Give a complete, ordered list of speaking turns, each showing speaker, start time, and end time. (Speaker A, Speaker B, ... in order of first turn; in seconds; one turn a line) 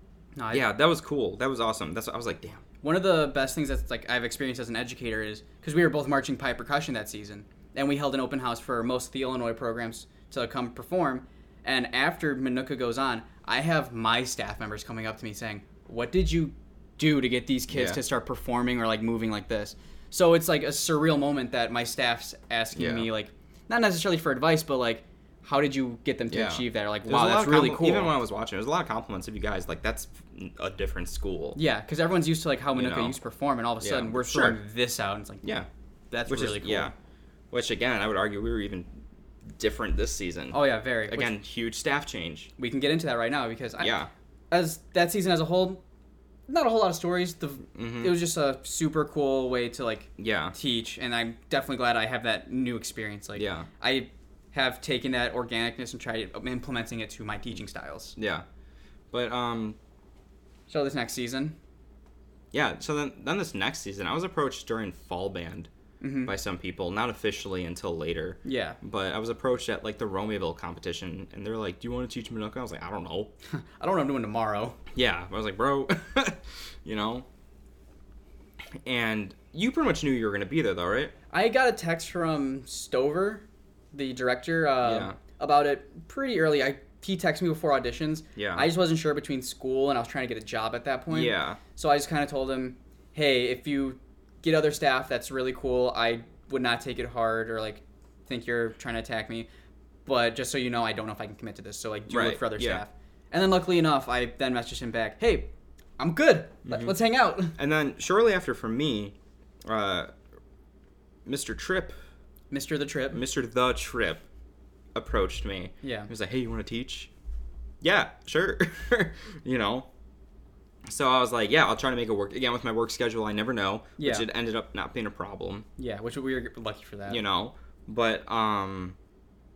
Speaker A: 0.3-0.7
Speaker B: 0.5-2.6
Speaker A: 2.8-28.1
Speaker B: 17.7-18.0
Speaker B: 22.7-23.1
Speaker B: 26.3-31.6
Speaker A: 31.5-35.4
Speaker B: 32.7-33.2
Speaker B: 33.8-34.6
Speaker B: 35.4-35.7
Speaker A: 36.1-36.9
Speaker B: 36.2-36.9
Speaker B: 37.5-38.9
Speaker B: 39.6-42.5
Speaker A: 40.5-41.3
Speaker A: 42.6-44.0
Speaker B: 43.8-44.1
Speaker A: 44.5-45.8
Speaker A: 46.5-58.2
Speaker B: 47.7-48.2
Speaker B: 50.2-50.5
Speaker B: 53.4-53.7
Speaker B: 58.2-58.4
Speaker B: 59.1-59.8
Speaker A: 60.7-61.5
Speaker B: 62.5-65.7
Speaker A: 66.0-66.3
Speaker B: 66.2-73.3
Speaker A: 68.4-68.8
Speaker A: 73.5-74.8
Speaker B: 74.9-77.2
Speaker B: 78.8-81.1
Speaker A: 81.3-99.5
Speaker B: 84.8-85.2
Speaker B: 88.3-88.7
Speaker B: 91.1-91.6
Speaker A: 100.0-107.6
Speaker B: 102.1-102.8
Speaker B: 106.7-106.9
Speaker B: 107.5-110.1
Speaker B: 111.2-112.0
Speaker A: 112.5-113.2
Speaker B: 113.1-114.2
Speaker B: 114.9-117.1
Speaker A: 115.8-116.1
Speaker B: 117.8-119.9
Speaker B: 120.9-125.7
Speaker A: 124.0-124.3
Speaker A: 125.8-127.2
Speaker B: 127.1-128.9